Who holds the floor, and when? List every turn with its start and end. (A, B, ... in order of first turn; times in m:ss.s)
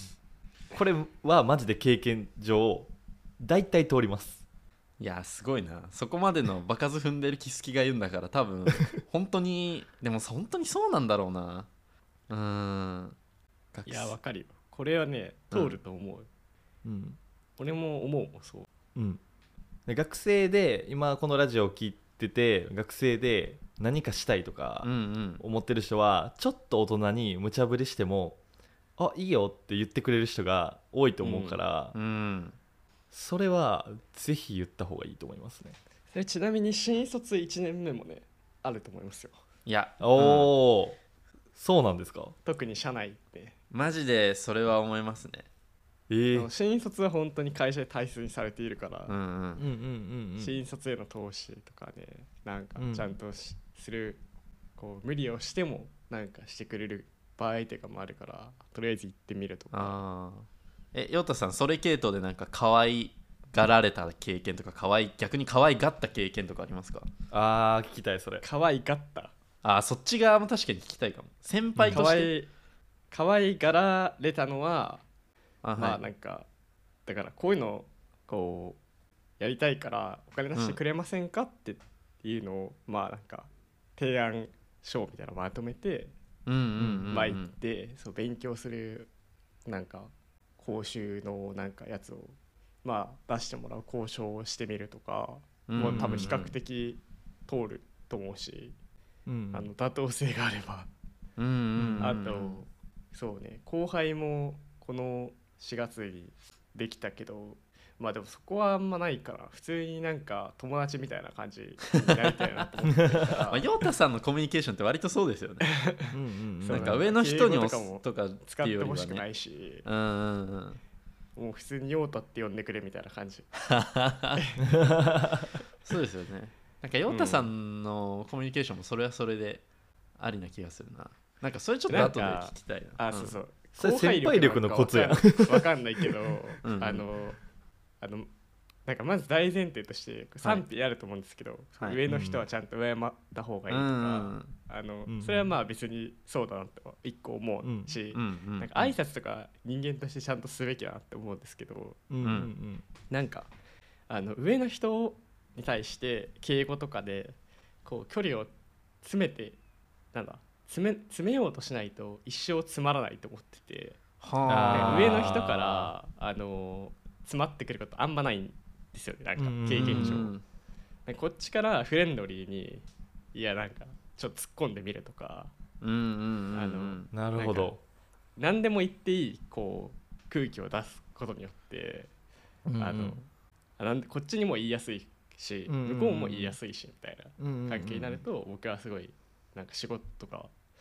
0:00.7-0:04.4 A
0:05.0-0:11.7 B
0:12.3-0:13.2 B
0:13.7-0:14.1 B
0:13.8-0:16.3 C
0:16.8-0:17.2 A
0:17.6-0:18.7 C
0:18.9-0:19.2 A
0:19.9-0:24.9 A
0:24.8-0:25.4 B
0:25.4-0:28.4 A
0:29.0-0:31.9 A
0:31.2-0:31.6 C
0:31.9-0:32.6 B
0:33.1-0:35.8 A
0:36.1-0:39.4 C
0:39.6-0:40.5 B
0:40.0-0:41.0 A
0:41.5-0:42.3 A
0:42.4-0:43.5 C
0:43.7-0:45.5 B
0:46.1-0:46.5 A
0:46.3-0:49.1 C
0:49.1-0:49.6 B
0:49.6-0:50.6 A
0:50.4-0:54.2 C
0:52.8-0:53.1 A
0:54.8-1:00.0 C
0:59.7-1:07.1 B
1:07.3-1:08.4 A
1:08.4-1:09.3 C
1:09.6-1:12.3 B
1:11.8-1:12.0 A
1:11.9-1:12.5 C
1:13.1-1:15.0 C
1:15.6-1:16.0 B
1:15.8-1:16.5 C
1:17.0-1:18.8 C
1:19.4-1:26.1 C
1:26.4-1:27.5 B
1:26.8-1:27.1 A
1:27.1-1:29.1 C
1:29.6-1:38.8 C
1:35.7-1:36.5 B
1:35.8-1:36.3 A
1:39.3-1:39.7 A
1:39.5-1:40.9 C
1:41.4-1:42.6 B
1:41.8-1:42.2 A
1:42.0-1:53.6 C
1:53.5-1:55.7 B
1:55.6-1:59.8 C
1:56.1-1:57.0 A
1:56.7-1:59.2 B
1:59.8-2:00.8 B
2:01.4-2:03.5 C
2:03.6-2:04.4 B
2:04.3-2:04.7 C
2:04.6-2:05.5 A
2:05.8-2:09.6 B
2:07.1-2:07.5 C
2:10.2-2:13.4 B
2:11.9-2:17.4 C
2:13.8-2:16.1 A
2:16.6-2:17.0 B
2:18.0-2:18.3 C
2:18.8-2:32.0 C
2:22.1-2:22.4 A
2:23.7-2:24.5 B
2:25.1-2:25.5 A
2:27.6-2:27.9 A
2:28.1-2:28.9 B
2:32.1-2:32.8 A
2:32.2-2:32.5 B
2:33.1-2:33.5 C
2:34.1-2:38.5 C
2:39.0-2:39.6 C
2:40.1-2:44.0 C
2:44.2-2:45.5 B
2:44.5-2:45.9 A
2:44.7-2:50.3 C
2:49.4-2:50.2 A
2:49.8-2:50.4 B
2:51.0-2:55.5 C
2:55.8-2:57.1 B
2:56.5-2:57.7 C
2:57.1-2:57.8 A
2:58.4-3:02.1 C
3:02.6-3:03.2 A
3:02.8-3:03.3 C
3:03.8-3:10.5 C
3:05.7-3:06.6 A
3:07.4-3:08.2 A